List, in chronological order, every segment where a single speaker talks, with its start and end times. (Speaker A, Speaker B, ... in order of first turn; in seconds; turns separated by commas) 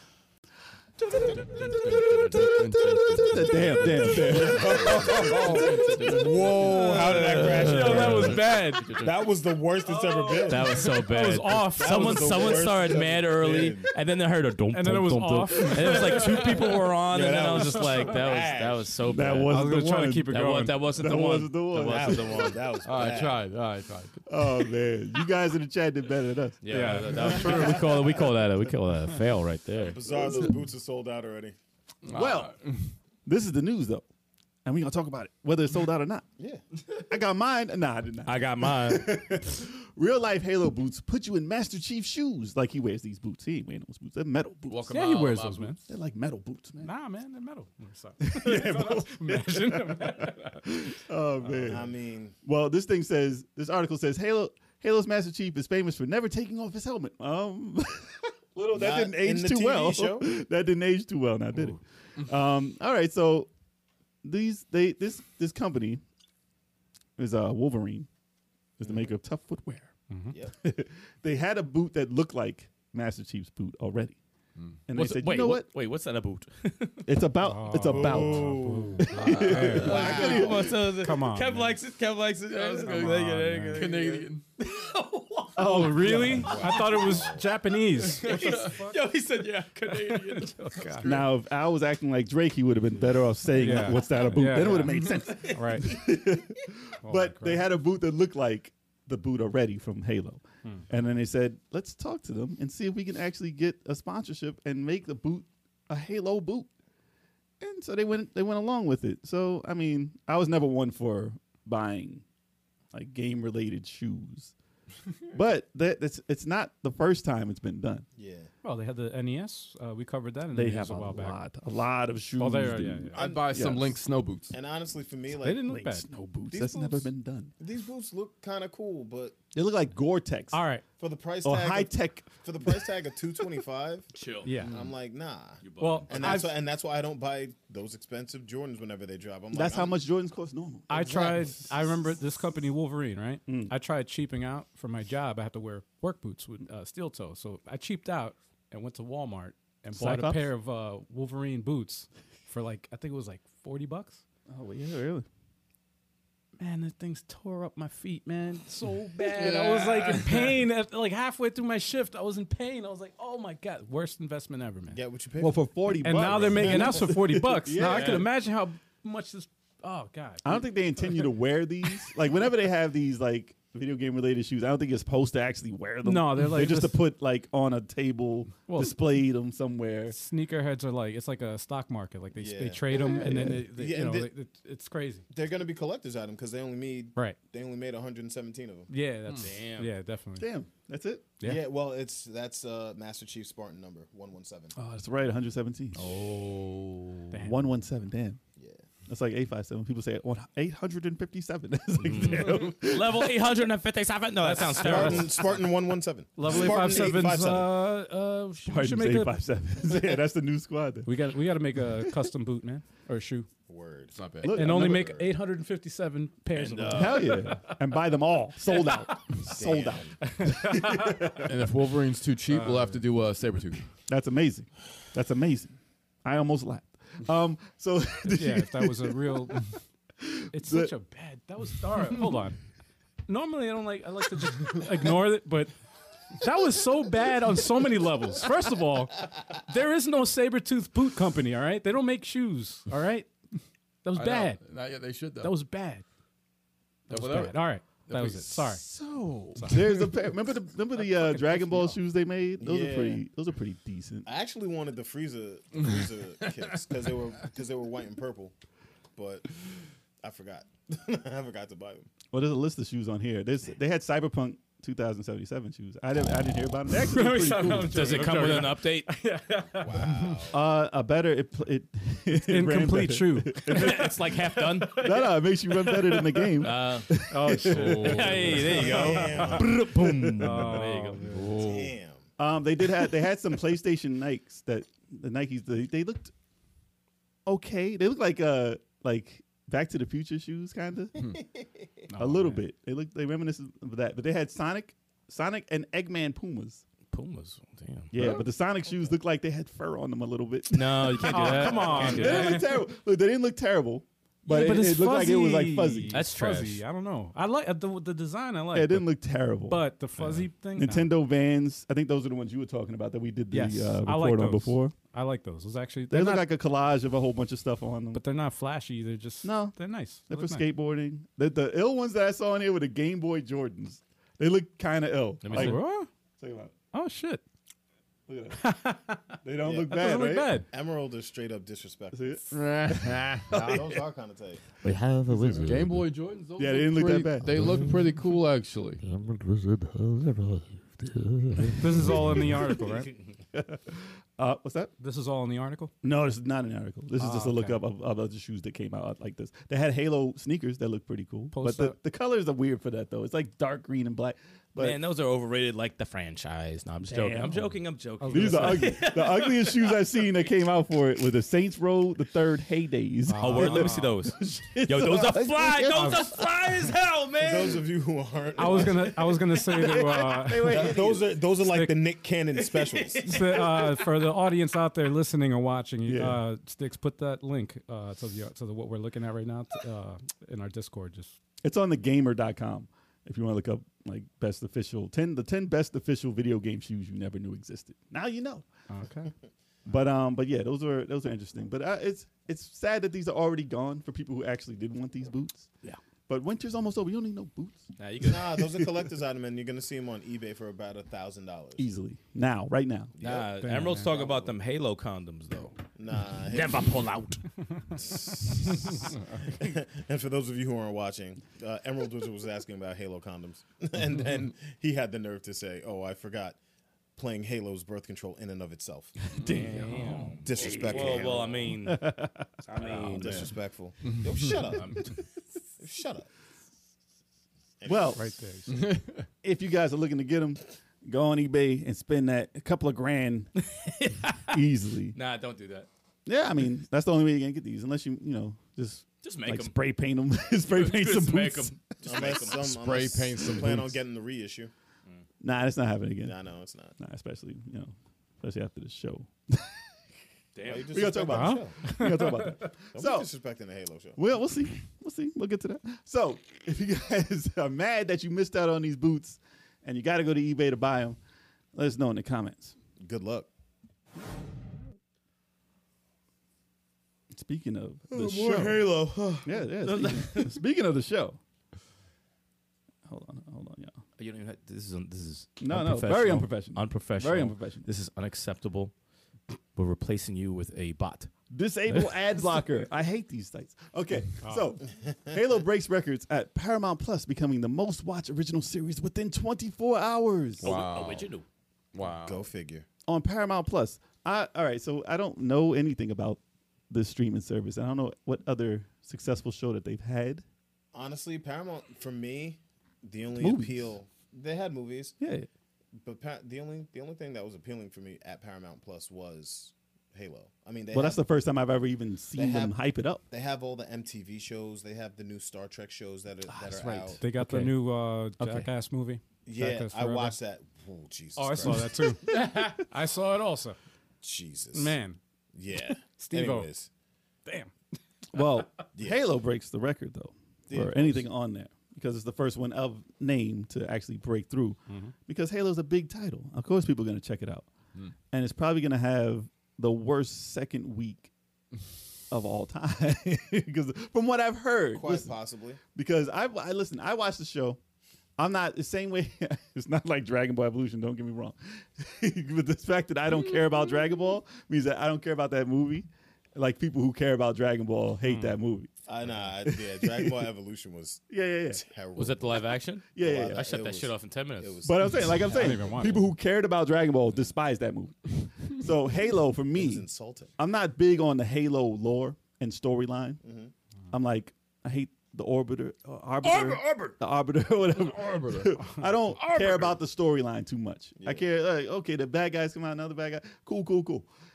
Speaker A: 1.2-9.2, Speaker B: 3.1-6.4, Speaker C: 4.1-10.9, Speaker D: 6.6-9.0, Speaker E: 6.7-8.3, Speaker D: 9.9-12.7, Speaker E: 10.4-19.6, Speaker C: 11.8-13.9, Speaker D: 14.7-16.6, Speaker A: 16.1-16.7, Speaker C: 17.0-18.9, Speaker B: 19.1-20.4, Speaker D: 19.5-20.8, Speaker E: 20.3-22.6, Speaker B: 21.0-22.6, Speaker C: 21.8-23.5, Speaker A: 22.8-24.2, Speaker B: 24.2-28.2, Speaker E: 26.6-30.0, Speaker D: 26.7-27.9, Speaker C: 29.8-31.6, Speaker A: 32.0-32.9, Speaker B: 32.1-32.6, Speaker B: 33.2-34.0, Speaker B: 34.6-36.2, Speaker B: 36.9-44.9, Speaker E: 38.2-39.2, Speaker A: 44.7-45.8, Speaker D: 44.9-45.8, Speaker B: 45.9-46.9, Speaker D: 46.8-50.8, Speaker B: 48.2-51.9, Speaker D: 51.4-51.7, Speaker C: 51.6-52.4, Speaker B: 52.4-63.5, Speaker C: 58.7-60.3, Speaker B: 64.2-66.0, Speaker B: 67.2-68.1, Speaker B: 68.8-69.9, Speaker C: 68.8-69.1, Speaker D: 70.1-70.3, Speaker B: 70.6-74.2, Speaker B: 74.9-75.7, Speaker E: 74.9-77.1, Speaker B: 77.0-80.7, Speaker D: 77.4-81.8, Speaker C: 77.8-80.7, Speaker E: 79.4-86.1, Speaker A: 79.5-80.3, Speaker A: 82.5-84.4, Speaker D: 82.9-83.8, Speaker B: 85.5-86.7, Speaker D: 85.6-89.0, Speaker C: 86.2-87.5, Speaker E: 86.7-87.2, Speaker E: 88.0-91.1, Speaker A: 88.2-88.8, Speaker D: 89.9-91.1, Speaker A: 90.9-91.3, Speaker B: 91.0-106.7, Speaker D: 93.5-96.0, Speaker D: 97.0-97.6, Speaker B: 107.6-112.2, Speaker B: 112.9-114.5, Speaker B: 115.3-118.1, Speaker C: 118.2-118.5, Speaker D: 118.6-121.4, Speaker B: 120.5-123.9, Speaker D: 122.4-123.2, Speaker A: 123.1-124.5, Speaker C: 123.2-123.9, Speaker C: 124.5-125.7, Speaker D: 125.4-126.1, Speaker B: 125.5-127.5, Speaker C: 126.5-129.4, Speaker B: 129.5-130.6, Speaker D: 130.5-130.8, Speaker C: 131.0-134.1, Speaker B: 131.4-132.9, Speaker E: 134.1-134.6, Speaker D: 134.4-134.7, Speaker C: 134.6-139.9, Speaker E: 135.6-136.5, Speaker D: 135.8-136.6, Speaker B: 139.5-141.5, Speaker D: 140.9-154.2, Speaker B: 149.9-150.5, Speaker B: 154.5-155.2, Speaker D: 156.6-165.0, Speaker A: 159.3-160.6, Speaker C: 164.9-167.0, Speaker B: 165.4-168.3, Speaker D: 166.0-171.2, Speaker B: 170.4-180.2, Speaker D: 176.0-177.1, Speaker D: 178.7-179.0, Speaker D: 180.1-185.2, Speaker C: 182.4-184.3, Speaker B: 182.9-183.7, Speaker C: 185.3-188.9, Speaker D: 188.9-190.5, Speaker E: 189.4-189.9, Speaker B: 190.4-191.3, Speaker C: 191.4-194.7, Speaker B: 194.8-196.0, Speaker E: 195.9-197.3, Speaker D: 197.3-197.7, Speaker B: 197.4-198.4, Speaker C: 198.6-198.8, Speaker B: 199.1-203.3, Speaker E: 202.0-205.6, Speaker D: 204.4-205.3, Speaker C: 204.7-207.8, Speaker D: 206.4-209.4, Speaker B: 208.7-211.1, Speaker D: 211.1-213.5, Speaker C: 213.7-215.3, Speaker A: 214.1-214.5, Speaker B: 214.4-215.2, Speaker D: 214.5-217.8, Speaker C: 216.5-217.2, Speaker B: 216.9-221.6, Speaker D: 218.7-219.2, Speaker C: 219.5-220.2, Speaker D: 220.3-221.4, Speaker A: 221.4-223.8, Speaker D: 222.5-223.0, Speaker B: 224.1-229.7, Speaker D: 228.2-229.7, Speaker B: 230.2-230.9, Speaker D: 230.5-232.6, Speaker D: 233.3-235.7, Speaker D: 236.3-243.3, Speaker D: 244.0-244.6, Speaker A: 244.1-245.5, Speaker D: 245.3-246.1, Speaker D: 247.1-248.8, Speaker A: 247.1-248.8, Speaker B: 248.8-254.3, Speaker D: 249.6-250.1, Speaker D: 251.2-251.9, Speaker C: 252.6-253.2, Speaker C: 254.3-258.5, Speaker C: 259.1-259.5, Speaker C: 260.2-262.1, Speaker B: 262.3-268.2, Speaker D: 266.9-270.4, Speaker E: 267.9-269.1, Speaker C: 269.7-270.6, Speaker B: 270.5-280.7, Speaker D: 272.4-274.1, Speaker E: 273.7-275.2, Speaker D: 275.1-276.6, Speaker E: 276.6-277.1, Speaker D: 277.2-279.6, Speaker A: 277.7-278.6, Speaker E: 277.9-281.3, Speaker C: 278.6-279.8, Speaker D: 280.4-281.6, Speaker A: 281.3-281.9, Speaker C: 281.6-282.3, Speaker B: 282.4-286.3, Speaker B: 287.4-291.2, Speaker A: 291.1-291.4, Speaker D: 292.1-292.6, Speaker B: 292.2-296.8, Speaker E: 297.1-298.1, Speaker B: 298.1-306.2, Speaker A: 298.2-298.4, Speaker E: 300.7-302.6, Speaker D: 301.3-302.8, Speaker D: 304.4-309.1, Speaker E: 306.1-306.8, Speaker B: 308.7-314.9, Speaker D: 309.7-311.1, Speaker D: 313.5-316.5, Speaker B: 316.1-318.2, Speaker D: 318.1-320.6, Speaker B: 319.4-319.8, Speaker B: 320.3-325.8, Speaker E: 325.4-325.8, Speaker D: 325.5-326.1, Speaker B: 326.4-326.7, Speaker D: 326.9-327.4, Speaker B: 328.3-328.7, Speaker D: 328.6-330.7, Speaker B: 329.4-330.6, Speaker C: 329.6-329.9, Speaker C: 330.7-332.5, Speaker B: 332.1-334.0, Speaker A: 332.5-333.5, Speaker C: 333.5-334.6, Speaker F: 334.8-336.1, Speaker A: 335.6-339.0, Speaker B: 336.6-337.8, Speaker F: 337.4-338.1, Speaker F: 339.0-342.6, Speaker D: 341.8-343.1, Speaker B: 343.5-344.9, Speaker D: 345.0-345.9, Speaker B: 346.0-355.0, Speaker D: 347.2-347.8, Speaker D: 351.5-352.0, Speaker E: 354.8-360.1, Speaker B: 357.0-366.9, Speaker D: 358.2-359.0, Speaker D: 363.3-364.1, Speaker E: 363.4-367.9, Speaker D: 365.9-366.3, Speaker C: 367.4-369.4, Speaker D: 368.6-370.9, Speaker B: 368.6-371.4, Speaker C: 370.7-373.5, Speaker D: 371.6-372.0, Speaker E: 372.5-374.1, Speaker D: 373.2-381.4, Speaker B: 376.1-376.4, Speaker B: 381.6-388.7, Speaker D: 388.9-389.3, Speaker B: 389.9-395.8, Speaker B: 396.3-399.1, Speaker E: 398.0-398.6, Speaker C: 398.2-401.8, Speaker B: 401.8-403.1, Speaker C: 403.2-404.5, Speaker E: 403.2-405.7, Speaker D: 403.6-404.1, Speaker C: 405.9-406.9, Speaker E: 406.5-407.4, Speaker C: 408.0-416.6, Speaker C: 417.2-419.3, Speaker A: 419.4-419.9, Speaker B: 419.4-423.5, Speaker E: 419.5-422.1, Speaker C: 420.4-421.7, Speaker E: 422.7-423.5, Speaker C: 422.7-425.1, Speaker A: 424.0-424.6, Speaker E: 424.7-425.1, Speaker C: 425.8-426.3, Speaker C: 427.8-428.2, Speaker B: 427.8-428.2, Speaker D: 428.1-428.9, Speaker A: 428.7-429.2, Speaker B: 429.4-433.6, Speaker E: 433.6-434.6, Speaker B: 434.5-435.1, Speaker E: 435.1-435.9, Speaker B: 436.3-441.9, Speaker E: 439.2-439.8, Speaker E: 440.6-442.6, Speaker C: 442.0-444.7, Speaker A: 442.6-444.0, Speaker B: 445.4-446.4, Speaker C: 446.2-446.9, Speaker B: 447.0-449.8, Speaker E: 450.6-451.0, Speaker C: 450.6-451.9, Speaker B: 450.7-453.3, Speaker D: 451.3-452.6, Speaker C: 452.9-454.2, Speaker B: 454.2-461.2, Speaker B: 461.7-462.8, Speaker C: 463.0-463.5, Speaker B: 467.3-468.9, Speaker C: 468.1-469.5, Speaker E: 468.6-469.1, Speaker B: 469.4-471.4, Speaker E: 469.8-470.6, Speaker B: 473.1-474.0, Speaker E: 474.2-478.9, Speaker B: 475.6-477.9, Speaker E: 479.7-481.3, Speaker B: 481.5-490.7, Speaker D: 484.4-484.7, Speaker A: 490.6-491.3, Speaker E: 490.6-491.4, Speaker A: 491.9-492.4, Speaker C: 492.0-492.8, Speaker B: 493.1-500.4, Speaker C: 500.9-505.1, Speaker B: 503.4-503.9, Speaker B: 505.2-505.5, Speaker C: 506.0-511.2, Speaker B: 510.9-513.2, Speaker C: 512.3-512.8, Speaker C: 513.3-517.2, Speaker B: 516.5-517.8, Speaker D: 517.2-520.4, Speaker B: 518.4-518.7, Speaker C: 519.5-522.3, Speaker D: 521.4-523.8, Speaker C: 524.2-525.0, Speaker D: 524.7-525.2, Speaker C: 525.5-526.9, Speaker D: 526.0-526.7, Speaker D: 527.5-527.7, Speaker B: 528.3-537.7, Speaker C: 529.0-529.3, Speaker C: 530.7-531.3, Speaker D: 534.9-535.1, Speaker B: 538.3-541.3, Speaker B: 542.3-545.3, Speaker C: 544.9-545.8, Speaker B: 545.9-547.8, Speaker B: 548.4-560.5, Speaker D: 558.2-558.6, Speaker C: 559.1-565.3, Speaker B: 561.3-561.8, Speaker E: 562.1-564.9, Speaker B: 563.1-563.7, Speaker B: 564.8-570.0, Speaker D: 565.5-566.3, Speaker C: 569.7-570.5, Speaker B: 570.6-573.4, Speaker C: 573.4-573.7, Speaker B: 574.1-584.3, Speaker A: 576.4-577.1, Speaker A: 578.0-580.0, Speaker C: 581.2-581.5